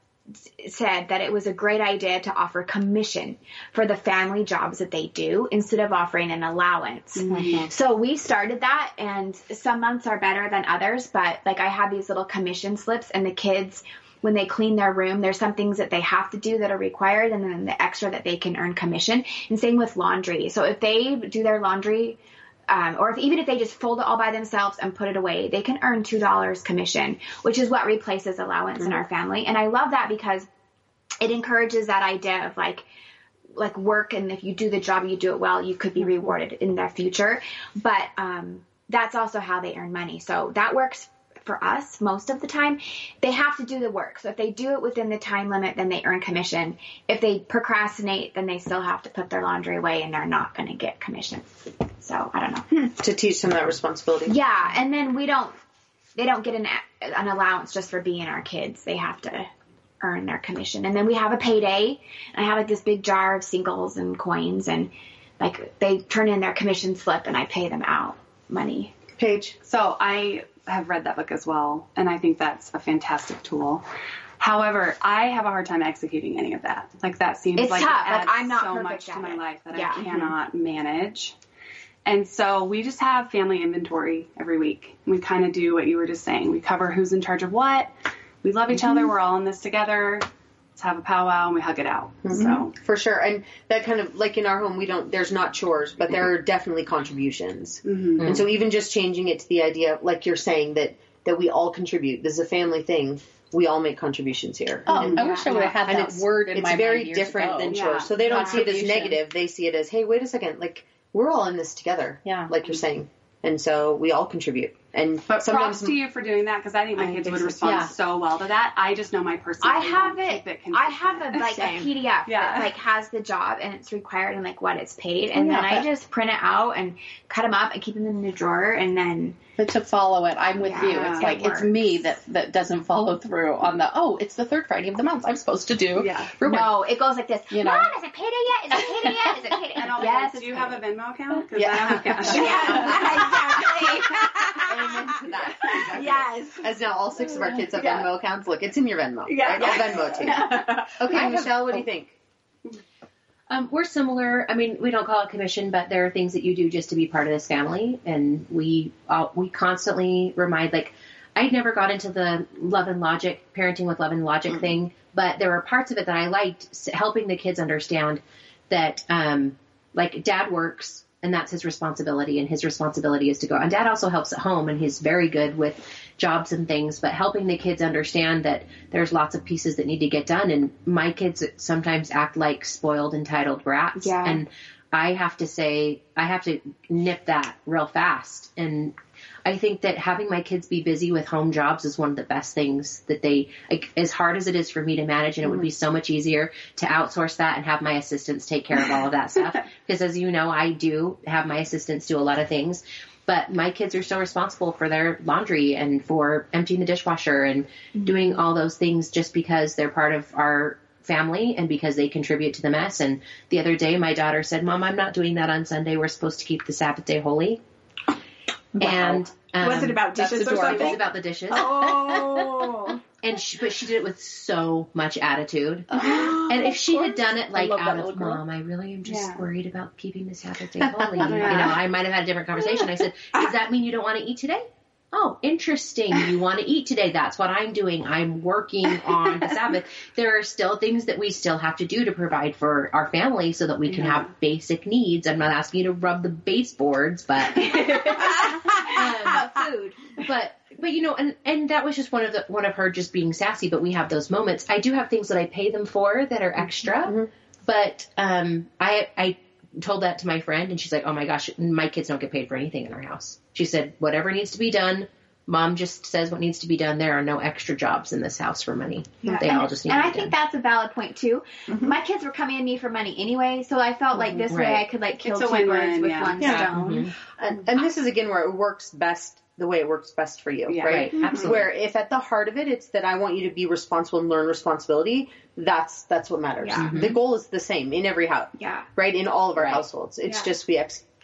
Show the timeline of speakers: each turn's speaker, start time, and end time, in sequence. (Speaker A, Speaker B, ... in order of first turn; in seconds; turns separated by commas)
Speaker A: 0.6-30.5, Speaker B: 7.2-7.7, Speaker C: 7.3-7.7, Speaker A: 31.2-32.9, Speaker A: 33.5-51.5, Speaker A: 52.0-52.9, Speaker D: 53.0-54.4, Speaker A: 54.3-55.5, Speaker A: 56.1-59.5, Speaker A: 60.0-68.9, Speaker D: 69.2-69.5, Speaker B: 69.6-73.8, Speaker B: 74.4-81.3, Speaker A: 77.5-80.3, Speaker B: 82.0-87.9, Speaker B: 88.4-92.7, Speaker D: 92.2-105.2, Speaker C: 92.3-92.6, Speaker B: 97.8-98.5, Speaker E: 104.9-109.2, Speaker B: 104.9-105.7, Speaker A: 105.1-105.7, Speaker D: 105.9-116.0, Speaker B: 107.7-108.5, Speaker E: 112.2-112.5, Speaker B: 115.3-121.5, Speaker D: 117.0-117.5, Speaker E: 117.6-117.9, Speaker A: 119.6-129.4, Speaker C: 121.3-121.9, Speaker B: 122.2-122.7, Speaker E: 125.3-125.9, Speaker E: 129.6-136.7, Speaker A: 130.6-132.1, Speaker B: 130.8-131.4, Speaker B: 135.9-136.4, Speaker A: 136.4-140.8, Speaker E: 137.5-137.9, Speaker B: 139.7-143.0, Speaker D: 141.5-143.1, Speaker A: 142.2-144.3, Speaker C: 142.2-146.7, Speaker D: 144.6-152.1, Speaker C: 147.2-148.1, Speaker C: 149.3-151.6, Speaker F: 153.5-217.6, Speaker A: 183.9-184.4, Speaker A: 207.9-208.4, Speaker C: 218.8-223.0, Speaker F: 218.8-221.7, Speaker E: 220.1-221.0, Speaker E: 221.7-222.1, Speaker F: 223.2-270.3, Speaker E: 225.9-226.9, Speaker C: 226.0-226.7, Speaker E: 227.5-228.3, Speaker C: 227.7-228.1, Speaker B: 229.0-229.4, Speaker D: 230.8-231.5, Speaker B: 231.2-231.8, Speaker B: 243.9-244.3, Speaker B: 247.6-248.3, Speaker A: 249.2-249.9, Speaker D: 257.0-257.3, Speaker A: 269.2-276.7, Speaker F: 274.4-274.9, Speaker B: 275.2-277.1, Speaker D: 276.4-276.6, Speaker F: 276.6-277.1, Speaker D: 277.4-291.0, Speaker B: 280.7-281.5, Speaker F: 280.9-281.6, Speaker A: 286.6-286.9, Speaker F: 286.8-287.2, Speaker A: 288.6-288.9